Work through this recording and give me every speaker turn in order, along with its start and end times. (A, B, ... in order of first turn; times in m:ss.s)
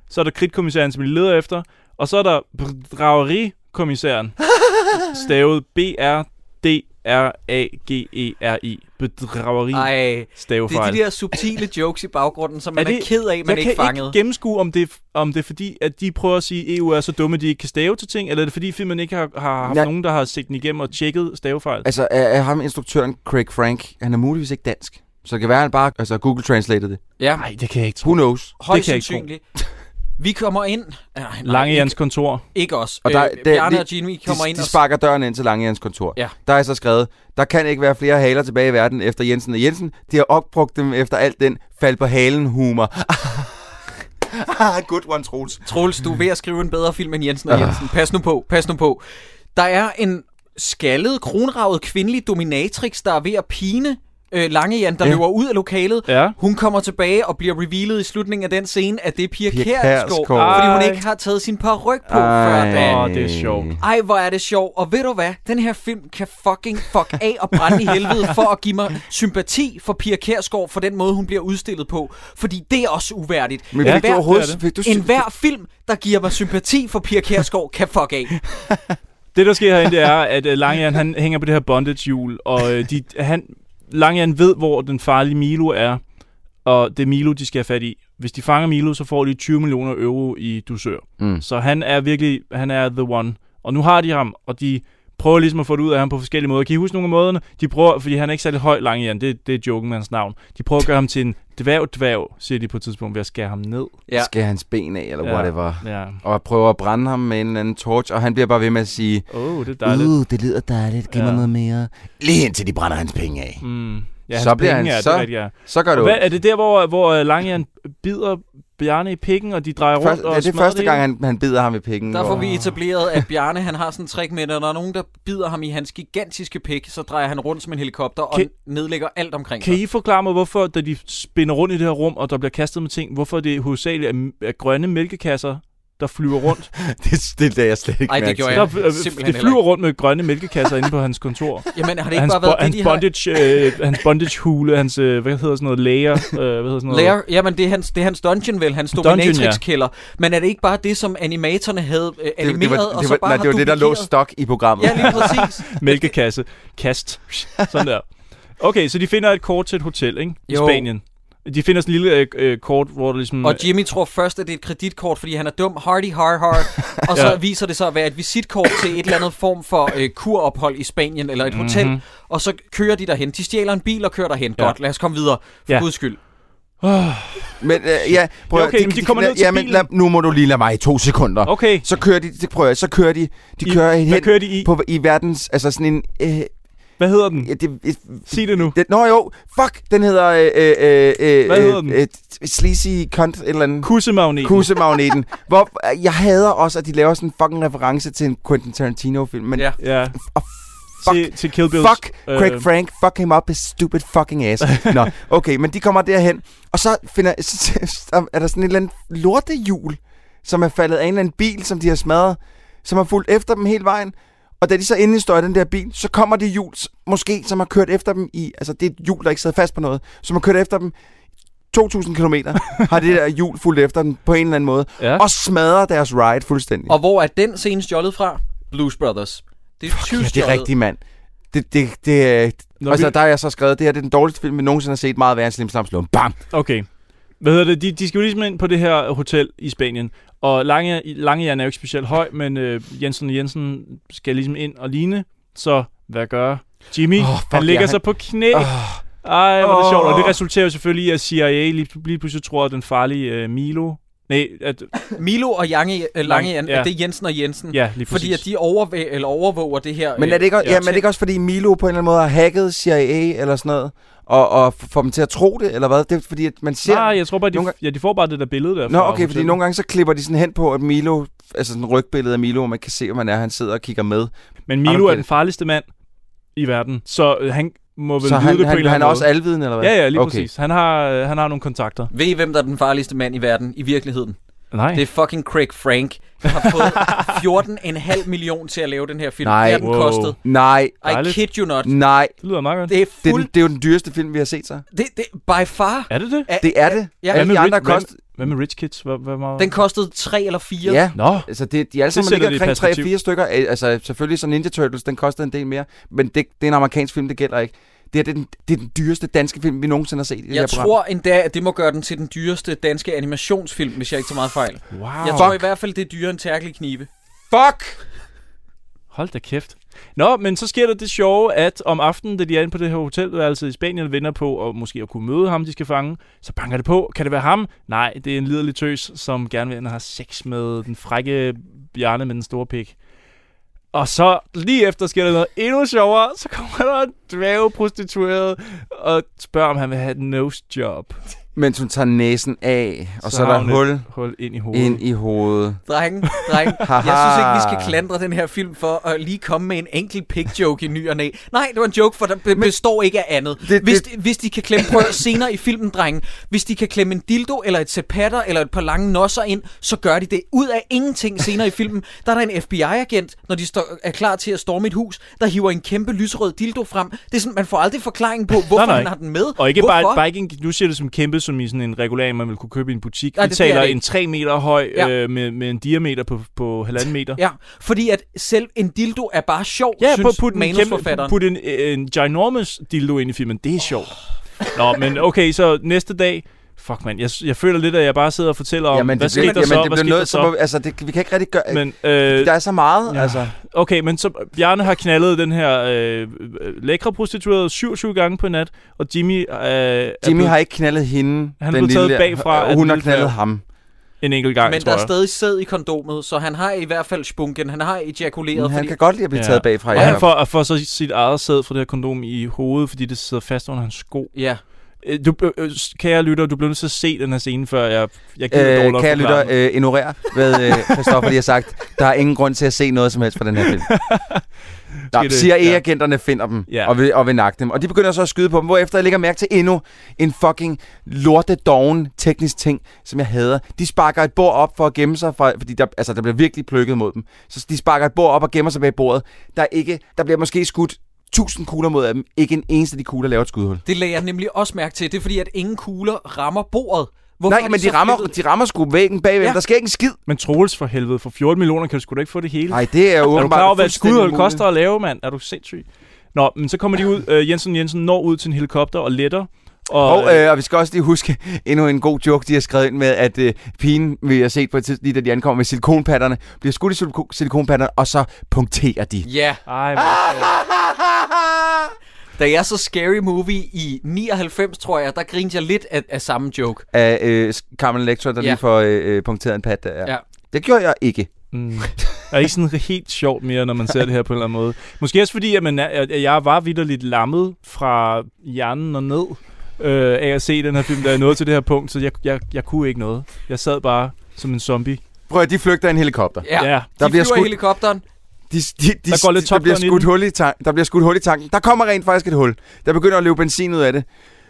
0:00.1-0:04.4 A
0:04.9-0:11.0 A
0:09.7-0:14.1 B
0:12.8-0:21.9 A
0:19.6-0:19.9 C
0:21.8-0:27.0 C
0:27.4-0:29.3 A
0:28.0-0:28.5 C
0:28.6-0:29.4 B
0:30.2-0:32.0 B
0:31.4-0:32.4 A
0:32.5-0:34.8 B
0:33.0-0:43.7 C
0:44.2-0:45.6 C
0:45.6-0:49.0 B
0:47.5-0:47.8 C
0:49.5-1:03.0 B
0:56.1-0:56.4 A
0:59.5-1:00.8 C
1:00.4-1:01.0 A
1:02.1-1:03.8 C
1:02.7-1:03.7 A
1:03.8-1:18.3 B
1:13.7-1:15.2 C
1:13.8-1:14.6 A
1:18.5-1:19.0 C
1:19.3-1:26.0 A
1:26.6-1:43.9 A
1:44.2-1:49.2 C
1:45.2-1:46.2 A
1:49.3-1:50.1 A
1:49.8-1:53.6 C
1:51.1-1:51.4 A
1:53.6-2:01.0 A
1:54.3-1:56.2 C
2:00.0-2:02.5 C
2:02.1-2:09.8 B
2:02.2-2:02.8 A
2:09.6-2:16.7 A
2:16.8-2:18.7 C
2:18.1-2:19.6 B
2:18.5-2:27.2 A
2:21.7-2:23.5 B
2:26.9-2:34.1 B
2:29.0-2:29.6 A
2:32.4-2:35.4 C
2:34.8-2:35.7 B
2:35.1-2:38.0 A
2:38.6-2:43.7 A
2:40.5-2:40.9 B
2:43.4-2:56.2 B
2:47.1-2:47.4 A
2:51.5-2:52.0 A
2:56.8-2:59.9 A
2:57.6-3:06.5 C
3:01.4-3:01.8 A
3:03.6-3:04.7 A
3:07.0-3:07.5 A
3:07.4-3:40.9 C
3:08.3-3:08.7 A
3:11.4-3:12.0 A
3:13.8-3:14.7 A
3:19.8-3:20.2 A
3:21.0-3:22.7 A
3:24.6-3:24.9 A
3:41.7-3:46.9 C
3:46.9-3:50.7 B
3:49.9-3:51.0 C
3:51.5-3:56.4 C
3:52.8-3:53.1 A
3:56.5-3:56.9 A
3:57.4-4:15.0 A
4:07.2-4:09.0 C
4:09.6-4:10.4 C
4:15.1-4:21.0 B
4:16.2-4:16.9 A
4:17.7-4:18.4 A
4:20.2-4:27.7 C
4:26.8-4:29.6 A
4:28.9-4:34.3 C
4:34.7-4:35.8 A
4:34.8-4:35.2 C
4:36.5-4:39.3 A
4:38.2-4:40.5 C
4:39.8-4:42.1 A
4:42.1-4:44.4 B
4:44.7-4:45.0 A
4:44.9-4:50.4 B
4:47.0-4:47.3 A
4:49.4-4:51.0 C
4:49.8-4:50.4 A
4:51.0-4:51.9 B
4:51.0-4:51.4 A
4:51.8-4:52.3 C
4:52.4-4:52.9 A
4:52.9-4:53.5 B
4:53.2-4:54.8 C
4:54.9-4:57.5 B
4:56.1-4:56.5 A
4:56.6-4:58.1 C
4:57.3-4:59.7 A
4:59.6-5:01.0 B
5:00.8-5:10.9 C
5:01.2-5:01.5 A
5:02.1-5:03.1 A
5:10.5-5:17.1 B
5:14.9-5:15.6 A
5:15.3-5:15.6 C
5:17.5-5:18.0 C
5:19.1-5:32.9 A
5:33.9-5:41.2 A
5:41.5-5:44.1 C
5:43.2-5:45.0 A
5:44.7-5:45.8 C
5:45.9-6:10.2 B
5:46.8-5:47.9 C
5:53.6-5:54.0 C
6:08.7-6:17.4 A
6:13.4-6:14.0 B
6:17.4-6:21.3 B
6:20.0-6:30.5 A
6:28.9-6:33.5 C
6:29.4-6:29.8 B
6:31.7-6:32.5 A
6:33.0-6:40.5 A
6:40.2-6:43.6 C
6:41.6-6:43.3 A
6:44.2-6:45.1 A
6:44.6-6:48.9 B
6:48.5-6:50.3 C
6:49.3-6:54.3 A
6:49.9-6:50.2 B
6:54.3-6:54.6 B
6:55.0-6:59.5 A
6:58.5-7:03.9 C
7:00.3-7:01.2 A
7:03.9-7:04.4 A
7:05.1-7:05.8 A
7:05.1-7:23.8 C
7:06.7-7:06.9 A
7:23.8-7:28.3 B
7:27.5-7:30.2 C
7:30.3-7:40.4 A
7:32.7-7:34.6 C
7:40.0-7:49.3 C
7:49.2-7:49.6 B
7:49.7-7:50.5 A
7:50.0-7:51.9 C
7:52.4-7:56.8 B
7:56.9-8:01.3 C
8:01.5-8:15.0 A
8:15.3-8:17.6 C
8:16.4-8:18.0 B
8:16.6-8:16.9 A
8:18.5-8:24.0 C
8:19.1-8:20.1 A